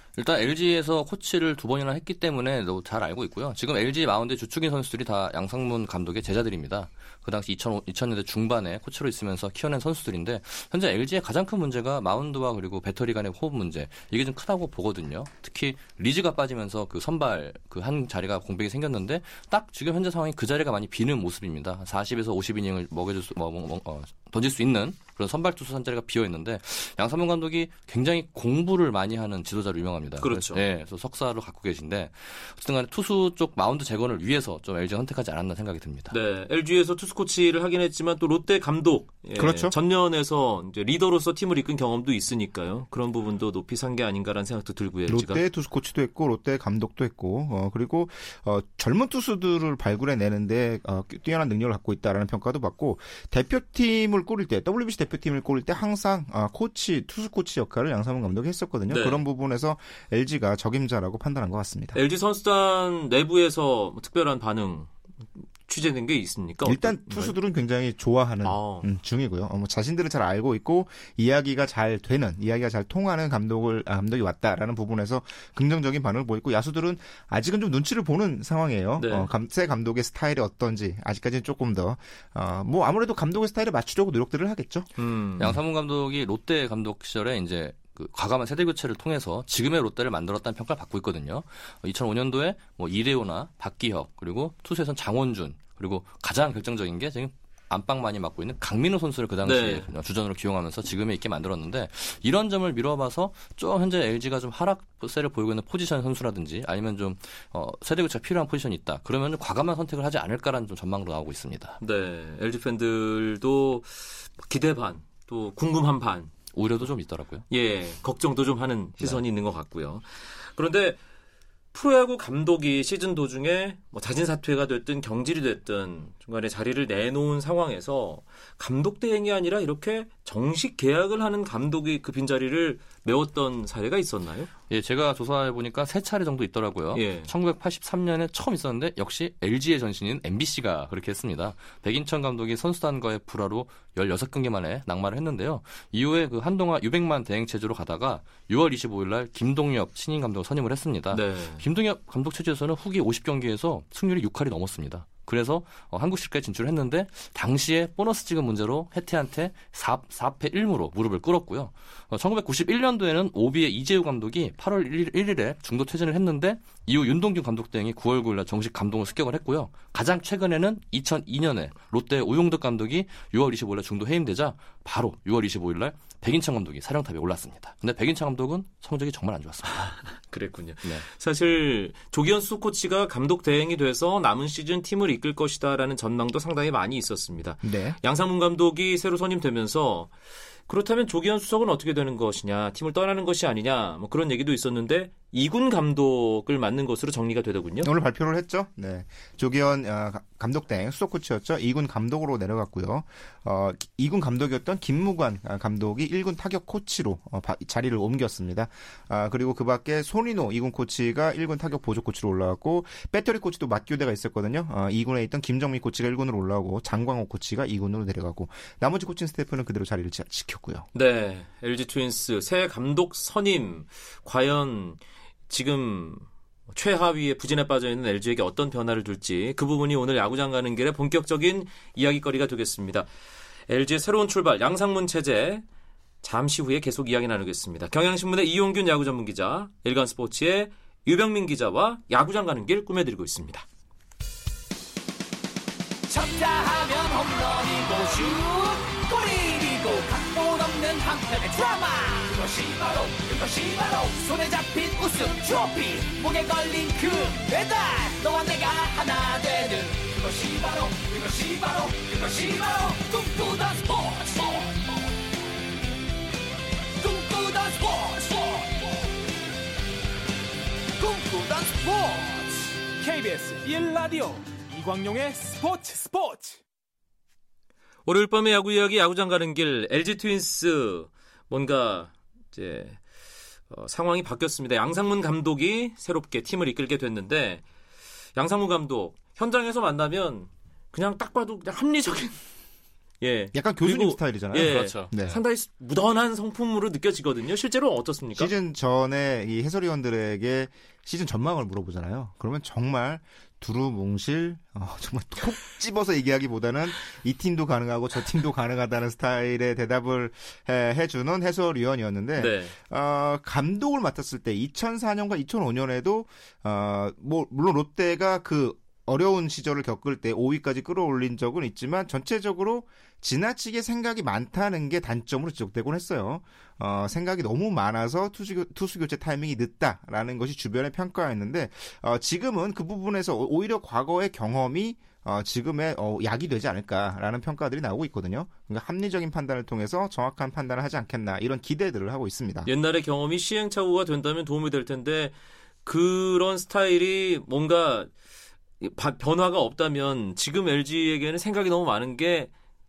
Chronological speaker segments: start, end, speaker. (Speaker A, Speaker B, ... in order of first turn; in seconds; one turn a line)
Speaker A: 0.2-36.1
Speaker B: 30.2-30.6
Speaker B: 36.1-45.4
Speaker C: 39.4-39.8
Speaker C: 45.1-62.0
Speaker B: 58.9-59.2
Speaker B: 61.9-64.9
Speaker B: 65.7-67.3
Speaker C: 66.7-84.9
Speaker B: 68.4-68.9
Speaker B: 79.0-79.3
Speaker B: 85.0-85.6
Speaker A: 85.4-111.8
Speaker B: 99.4-99.9
Speaker B: 111.8-116.3
Speaker A: 116.5-117.5
Speaker B: 117.5-121.0
Speaker B: 121.7-134.5
Speaker A: 134.7-180.0
Speaker B: 136.9-137.3
Speaker B: 151.1-151.6
Speaker B: 180.1-190.1
Speaker C: 187.6-188.0
Speaker B: 190.7-197.9
Speaker C: 197.8-220.8
Speaker B: 220.9-233.1
Speaker B: 233.7-235.6
Speaker B: 236.2-243.7
Speaker D: 246.1-264.8
Speaker D: 267.0-269.0
Speaker D: 271.0-272.7
Speaker E: 273.0-276.6
Speaker B: 278.1-283.0
Speaker B: 283.7-287.6
Speaker B: 288.4-292.4
Speaker B: 293.2-298.5
Speaker C: 293.5-295.4
Speaker A: 294.6-295.1
Speaker C: 298.4-342.7
Speaker B: 312.4-312.8
Speaker B: 342.7-348.1
Speaker B: 348.8-352.5